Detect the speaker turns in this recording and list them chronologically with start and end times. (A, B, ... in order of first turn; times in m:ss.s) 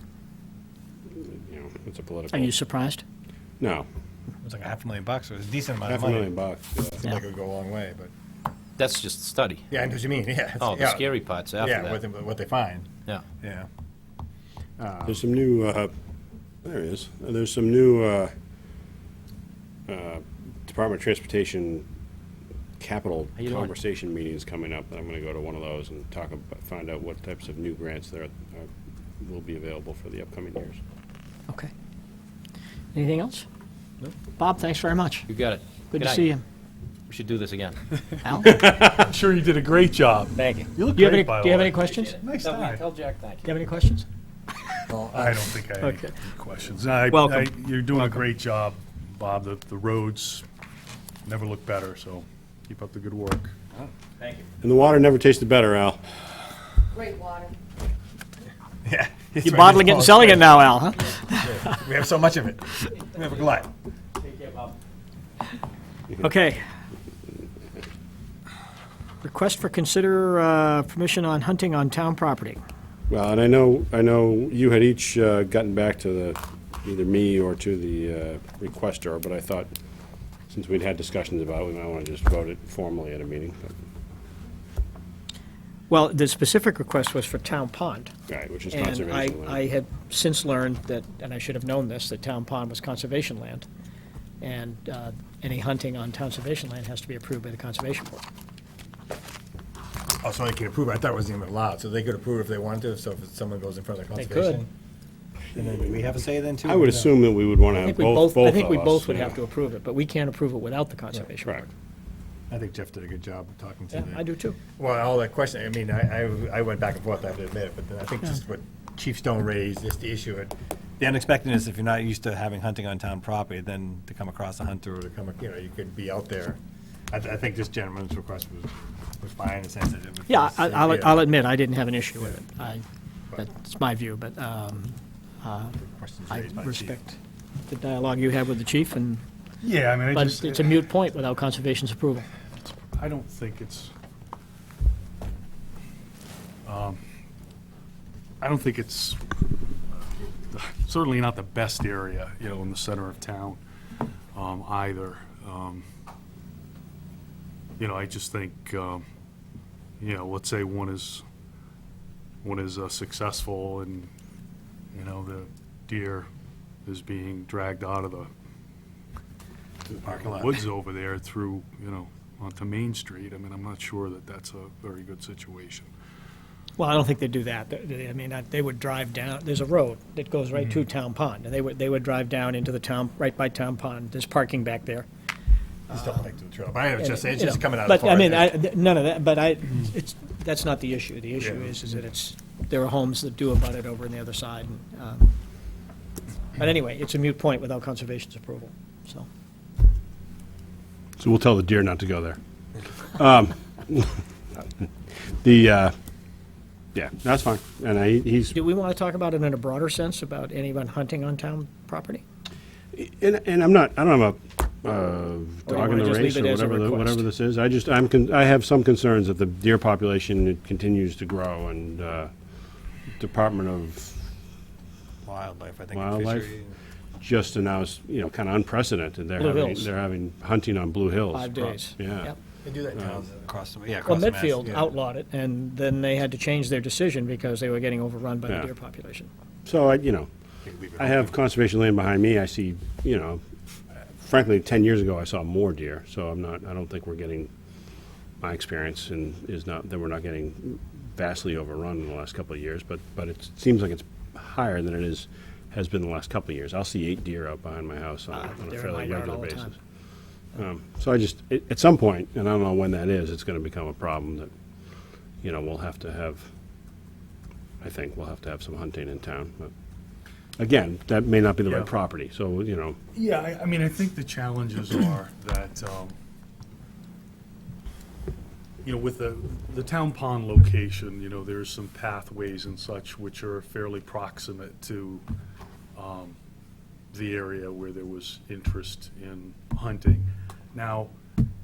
0:01.2-0:02.5 A
0:02.3-0:03.0 B
0:03.6-0:03.8 A
0:04.4-0:06.3 C
0:05.9-0:07.1 A
0:07.0-0:08.1 C
0:08.8-0:09.6 D
0:09.7-0:12.9 C
0:10.6-0:12.0 D
0:13.4-0:13.7 C
0:14.8-0:15.2 C
0:15.0-0:15.9 A
0:16.6-0:18.3 A
0:19.9-0:21.8 A
0:22.8-0:30.8 A
0:23.4-0:23.7 D
0:32.9-0:33.4 B
0:34.4-0:35.3 B
0:35.3-0:36.3 D
0:35.9-0:36.4 B
0:37.1-0:37.8 D
0:38.2-0:38.8 B
0:38.4-0:41.8 E
0:40.4-0:40.7 D
0:40.8-0:42.2 B
0:41.8-0:43.5 D
0:42.2-0:42.6 C
0:42.4-0:42.8 E
0:43.4-0:44.1 B
0:44.9-0:45.4 C
0:45.2-0:50.4 E
0:45.8-0:46.1 B
0:47.1-0:48.2 B
0:51.2-0:53.5 E
0:54.2-0:54.5 D
0:54.6-0:56.0 A
0:58.8-1:00.6 C
0:59.4-1:01.8 B
1:01.4-1:03.7 C
1:04.2-1:04.8 D
1:06.2-1:06.6 B
1:09.2-1:12.6 B
1:13.1-1:19.7 A
1:20.5-1:23.8 A
1:25.9-1:28.1 B
1:28.3-1:29.7 A
1:28.7-1:33.7 B
1:34.4-1:38.2 B
1:40.2-1:44.7 C
1:44.2-1:44.6 B
1:45.5-1:47.1 C
1:46.6-1:49.4 A
1:47.8-1:51.6 B
1:51.4-1:51.7 A
1:52.5-1:54.2 C
1:53.9-1:54.6 B
1:54.8-2:06.6 C
2:07.1-2:11.2 C
2:10.3-2:12.8 B
2:13.4-2:15.7 B
2:15.7-2:17.0 C
2:16.3-2:19.2 B
2:19.6-2:20.9 E
2:20.1-2:22.3 B
2:22.7-2:23.9 E
2:26.6-2:27.0 E
2:28.4-2:29.2 E
2:30.5-2:33.6 E
2:34.3-2:35.8 E
2:37.8-2:39.0 E
2:40.0-2:41.2 E
2:42.4-2:44.1 E
2:44.9-2:46.3 E
2:46.8-2:48.3 E
2:49.9-2:50.6 C
2:50.0-2:55.9 E
2:56.8-3:05.1 B
3:05.9-3:08.6 C
3:07.0-3:15.4 B
3:16.5-3:19.3 B
3:21.2-3:22.4 A
3:22.9-3:25.9 A
3:26.9-3:28.6 A
3:28.5-3:32.2 B
3:32.9-3:42.3 A
3:35.7-3:37.2 B
3:43.2-3:44.3 A
3:45.2-3:46.7 C
3:45.9-3:46.5 A
3:47.2-3:52.3 A
3:49.4-3:49.9 B
3:51.3-3:52.4 B
3:52.6-3:54.9 C
3:54.0-3:59.3 B
3:59.6-4:00.3 A
4:00.6-4:01.4 C
4:01.0-4:03.4 A
4:04.0-4:07.5 A
4:08.4-4:19.8 A
4:18.3-4:19.8 B
4:20.5-4:24.5 A
4:25.4-4:26.5 A
4:27.8-4:29.7 A
4:30.6-4:33.0 A
4:31.6-4:31.9 E
4:33.1-4:36.1 E
4:38.8-4:45.2 E
4:45.9-4:46.4 E
4:47.1-4:51.1 E